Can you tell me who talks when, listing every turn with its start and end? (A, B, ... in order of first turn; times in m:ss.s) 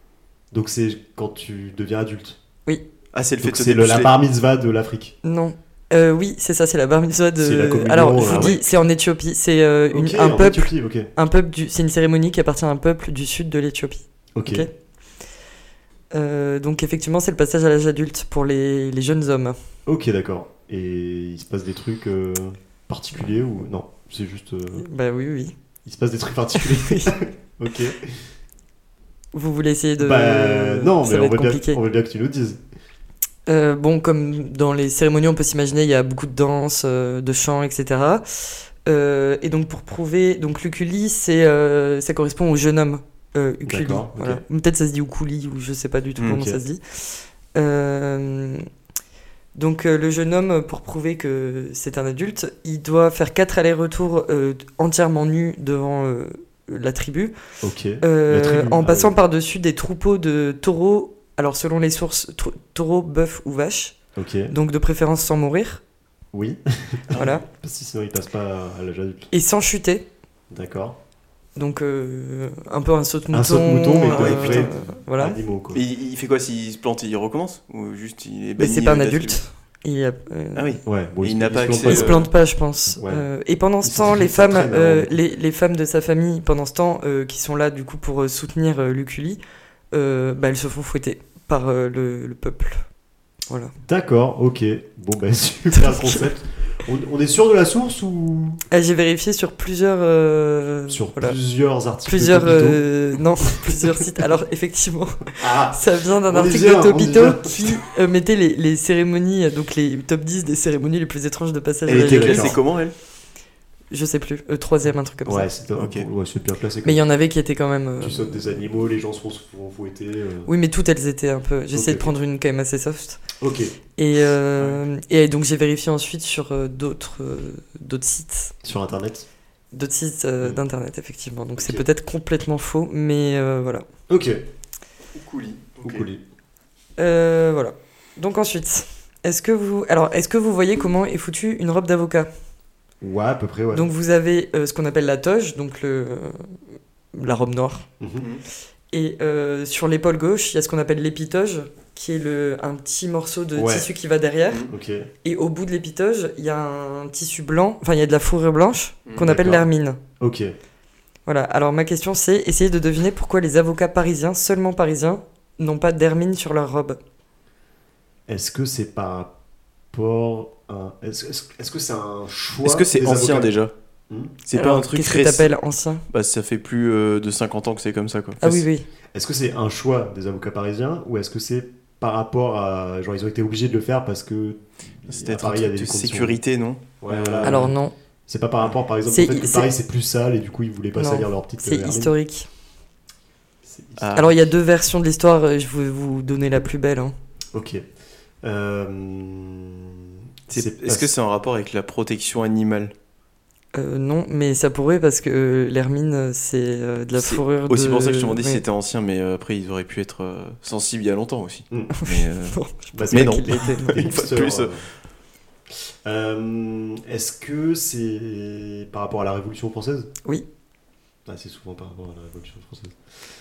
0:00.5-0:02.4 A
0:03.1-0:04.2 B
0:03.4-0:05.1 A
0:05.2-0:14.7 C
0:07.4-0:08.6 A
0:08.2-0:08.5 B
0:09.9-0:11.1 A
0:14.4-0:14.7 A
0:16.1-0:19.6 C
0:19.9-0:24.9 A
0:24.8-0:25.5 C
0:25.8-0:28.3 A
0:26.6-0:27.1 C
0:29.3-0:31.8 C
0:30.0-0:32.6 A
0:33.5-0:48.6 C
0:43.6-0:44.4 A
0:46.2-0:46.5 B
0:49.5-0:57.4 C
0:57.6-0:59.2 A
0:58.0-1:05.8 C
1:04.2-1:04.5 A
1:06.3-1:09.3 A
1:07.1-1:07.4 C
1:09.3-1:10.0 C
1:10.5-1:11.0 A
1:11.6-1:15.4 C
1:13.3-1:15.8 A
1:14.0-1:14.7 B
1:15.7-1:19.4 B
1:18.6-1:20.8 C
1:20.5-1:22.3 B
1:20.8-1:22.3 A
1:21.8-1:29.4 C
1:22.9-1:23.2 A
1:23.8-1:25.2 A
1:29.9-1:32.8 C
1:33.5-1:33.7 C
1:33.8-1:38.6 A
1:35.7-1:36.2 C
1:38.7-1:41.4 C
1:40.9-1:42.9 A
1:42.0-1:52.6 C
1:45.4-1:47.8 A
1:51.9-1:52.9 B
1:51.9-1:52.6 A
1:53.9-1:55.5 C
1:55.2-1:57.0 A
1:55.8-1:56.1 B
1:56.8-1:58.6 C
1:58.0-2:00.5 A
2:00.5-2:03.2 C
2:01.7-2:02.1 A
2:03.4-2:03.8 A
2:04.0-2:08.5 C
2:08.6-2:09.2 A
2:09.7-2:13.8 C
2:11.6-2:11.9 A
2:14.1-2:14.4 A
2:15.1-2:16.1 B
2:15.8-2:16.2 A
2:17.0-2:22.3 C
2:23.0-2:23.9 A
2:23.7-2:26.6 C
2:27.1-2:27.9 C
2:28.0-2:28.2 A
2:28.2-2:28.4 B
2:28.9-2:34.7 C
2:33.5-2:33.9 A
2:34.7-2:35.1 A
2:35.2-2:40.0 C
2:39.0-2:39.3 B
2:39.2-2:39.6 A
2:40.2-2:40.5 A
2:41.2-2:47.0 C
2:48.3-2:49.3 A
2:49.9-2:53.5 A
2:52.6-2:53.7 B
2:54.1-2:54.3 A
2:54.4-2:55.5 B
2:54.5-2:56.0 C
2:56.1-2:58.6 B
2:58.4-2:58.9 C
2:59.1-3:06.4 A
3:05.1-3:07.7 B
3:07.0-3:07.8 A
3:07.4-3:07.9 C
3:08.3-3:12.1 A
3:09.1-3:09.7 C
3:11.0-3:12.5 C
3:13.6-3:14.1 A
3:14.0-3:14.3 B
3:14.1-3:17.1 C
3:17.5-3:17.8 A
3:18.4-3:21.1 A
3:20.5-3:22.9 B
3:23.7-3:28.6 C
3:27.1-3:32.6 B
3:32.0-3:34.1 C
3:32.9-3:34.9 A
3:33.1-3:34.7 B
3:35.7-3:40.1 A
3:41.2-3:43.2 A